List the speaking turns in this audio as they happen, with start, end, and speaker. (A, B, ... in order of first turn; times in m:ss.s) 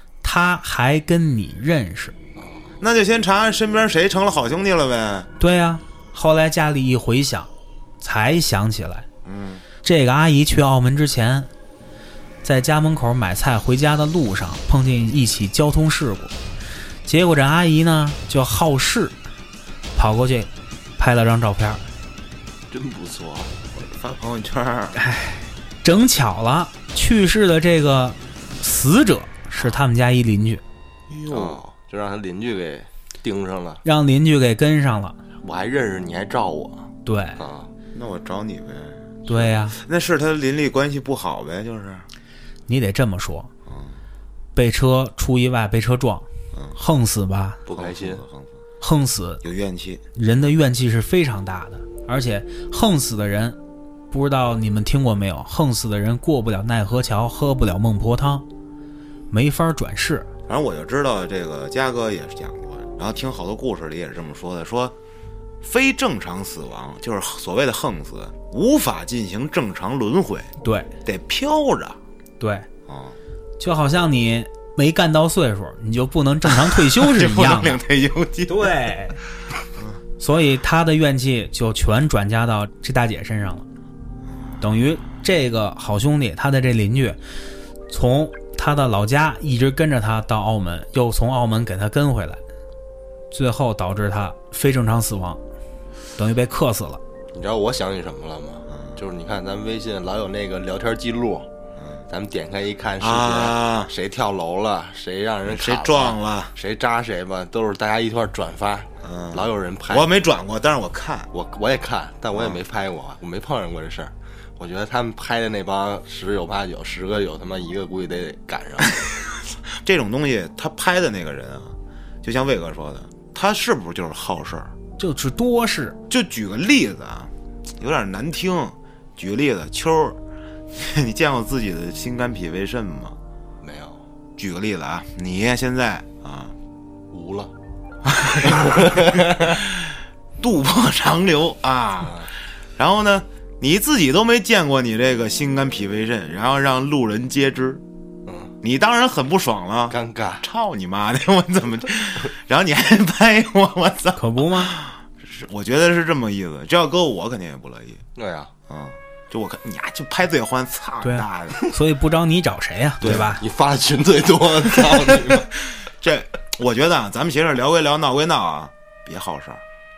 0:00.2-0:02.1 A
0:02.4-0:02.7 B
0:02.8-0:05.3 C
0:05.4-0:07.5 A
0:08.0-0:09.1 A
0:09.2-0:09.6 C
0:09.8-0:11.5 A
0:12.4-0:16.3 A
0:17.0-0:19.2 A
0:20.0-0:21.9 A
0:22.7-0:23.5 B
0:23.8-0:25.0 C
0:25.0-0:30.6 A
0:31.1-0:31.6 C
0:31.3-0:33.8 B
0:33.8-0:35.2 A
0:35.4-0:37.7 B
0:37.0-0:37.4 A
0:37.9-0:42.1 C
0:39.3-0:39.8 A
0:42.7-0:43.5 A
0:43.6-0:44.0 C
0:44.5-0:47.6 A
0:46.5-0:46.8 C
0:47.6-0:48.2 B
0:47.7-0:48.6 C
0:48.8-0:49.4 A
0:49.4-0:50.0 C
0:50.1-0:53.6 A
0:54.1-0:58.4 A
0:59.3-1:00.3 A
1:00.5-1:05.0 C
1:05.6-1:10.5 C
1:10.6-1:10.9 A
1:11.0-1:12.0 C
1:12.4-1:12.7 A
1:12.9-1:13.2 C
1:13.6-1:17.8 A
1:16.5-1:18.8 C
1:18.5-1:19.2 A
1:20.2-1:23.6 A
1:24.6-1:27.2 A
1:27.9-1:32.4 A
1:33.3-1:35.4 A
1:36.2-1:37.0 A
1:37.3-1:41.5 B
1:38.7-1:39.0 C
1:42.1-1:50.1 B
1:43.0-1:43.9 C
1:45.5-1:46.5 C
1:49.0-1:51.3 C
1:51.3-1:59.0 B
1:52.3-1:52.6 C
1:59.0-2:04.7 C
2:05.0-2:06.0 A
2:06.1-2:10.2 C
2:10.7-2:13.2 C
2:13.6-2:14.0 B
2:14.4-2:16.5 C
2:17.1-2:17.5 B
2:18.0-2:27.8 C
2:18.5-2:19.3 B
2:22.0-2:22.3 B
2:28.2-2:28.5 B
2:28.6-2:38.0 C
2:29.9-2:30.4 B
2:34.2-2:34.8 A
2:38.2-2:38.5 B
2:38.7-2:41.6 C
2:41.0-2:43.4 A
2:43.0-2:43.4 C
2:43.0-2:45.5 B
2:45.1-2:49.6 C